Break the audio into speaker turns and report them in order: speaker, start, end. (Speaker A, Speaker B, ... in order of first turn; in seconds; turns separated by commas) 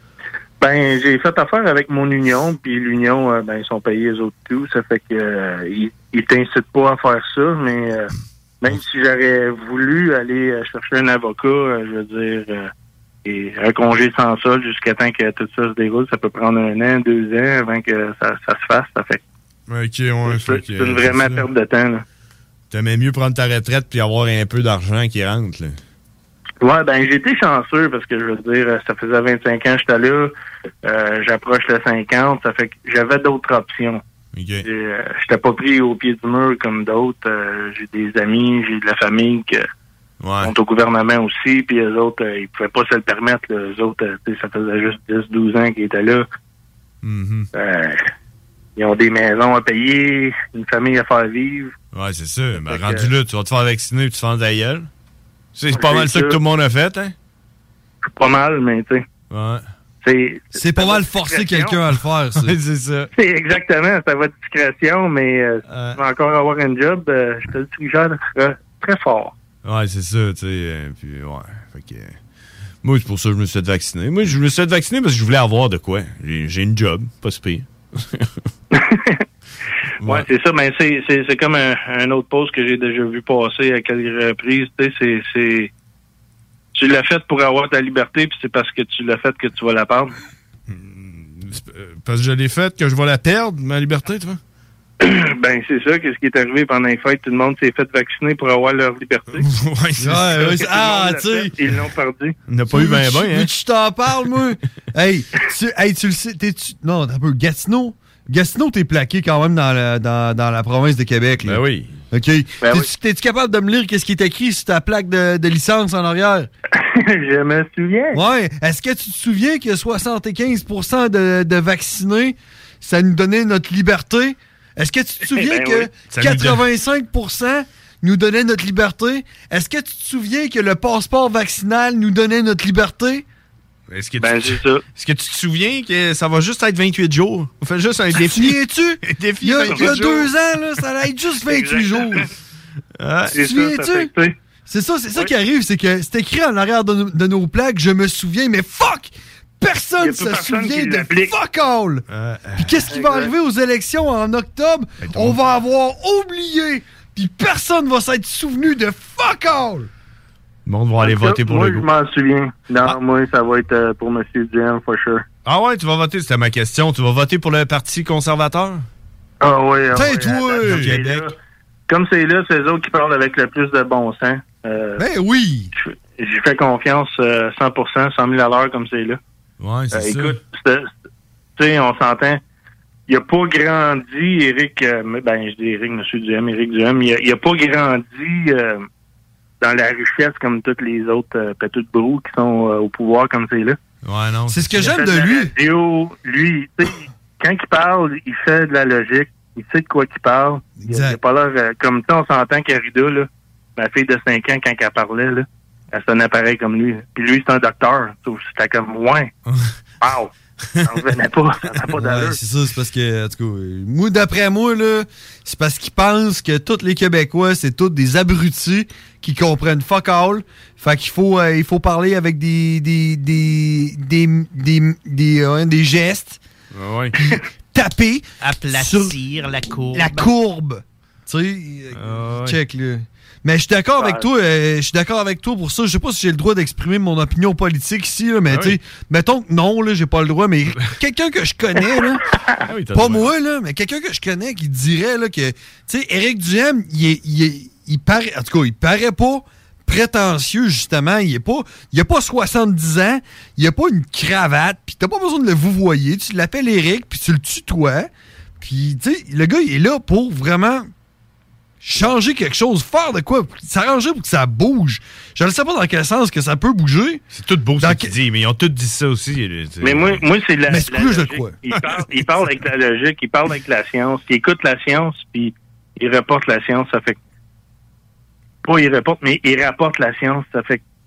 Speaker A: 0.6-12.7, Speaker A: 13.2-19.2, Speaker B: 19.7-21.4, Speaker A: 20.2-22.0, Speaker B: 22.7-25.8, Speaker A: 26.6-30.3, Speaker A: 30.8-34.0, Speaker B: 34.3-34.7, Speaker A: 34.6-39.6, Speaker B: 40.2-40.5, Speaker A: 40.4-46.2, Speaker B: 47.0-47.5, Speaker A: 47.5-48.1, Speaker A: 48.8-51.7, Speaker B: 51.9-54.9, Speaker A: 52.6-53.1, Speaker B: 55.5-57.1, Speaker A: 55.7-56.4, Speaker A: 58.2-59.0, Speaker B: 59.3-59.6, Speaker A: 60.0-61.8, Speaker C: 60.5-62.5, Speaker B: 62.4-63.1, Speaker A: 63.1-69.3, Speaker B: 65.7-66.0, Speaker B: 69.6-72.2, Speaker B: 72.8-78.3, Speaker A: 78.7-79.2, Speaker B: 80.0-80.3, Speaker A: 80.0-85.7, Speaker A: 86.7-90.1, Speaker B: 90.7-94.4, Speaker A: 95.0-99.5, Speaker B: 99.3-100.6, Speaker C: 100.0-101.5, Speaker A: 100.6-102.3, Speaker B: 102.5-103.5, Speaker C: 102.7-116.5, Speaker B: 111.4-111.9, Speaker A: 112.6-112.9, Speaker A: 116.7-118.2, Speaker C: 118.1-133.2, Speaker A: 125.3-125.9, Speaker B: 126.1-126.6, Speaker B: 133.9-140.3, Speaker A: 134.2-134.8, Speaker C: 138.1-142.3, Speaker A: 141.4-142.2, Speaker B: 143.0-143.4, Speaker A: 143.3-144.3, Speaker C: 143.3-144.1, Speaker C: 144.7-152.1, Speaker A: 150.0-151.3, Speaker B: 152.1-152.9, Speaker C: 152.6-159.9, Speaker A: 152.9-153.3, Speaker B: 155.0-155.4, Speaker B: 160.7-161.8, Speaker A: 161.0-165.2, Speaker B: 165.4-168.8, Speaker A: 169.4-171.3, Speaker C: 169.9-170.9, Speaker B: 170.6-171.3, Speaker A: 171.9-175.0, Speaker C: 175.0-175.7, Speaker A: 175.7-179.2, Speaker B: 179.6-180.4, Speaker A: 179.9-180.9, Speaker A: 181.6-182.4, Speaker A: 183.1-188.8, Speaker A: 189.6-193.8, Speaker B: 194.0-194.9, Speaker C: 194.5-195.5, Speaker A: 194.7-209.3, Speaker C: 200.8-201.2, Speaker B: 209.5-209.7, Speaker A: 210.0-210.3, Speaker A: 210.8-212.4, Speaker C: 212.0-226.4, Speaker B: 226.7-227.2, Speaker C: 227.2-229.2, Speaker B: 228.4-230.3, Speaker C: 229.9-242.2, Speaker B: 231.9-232.6, Speaker A: 234.0-234.3, Speaker B: 238.5-238.8, Speaker B: 242.7-243.3, Speaker C: 242.9-258.1, Speaker C: 258.6-260.9, Speaker C: 261.8-267.2, Speaker B: 267.3-270.2, Speaker C: 267.8-268.1, Speaker A: 269.8-277.2, Speaker C: 270.7-271.5, Speaker B: 271.7-272.2, Speaker A: 278.6-280.8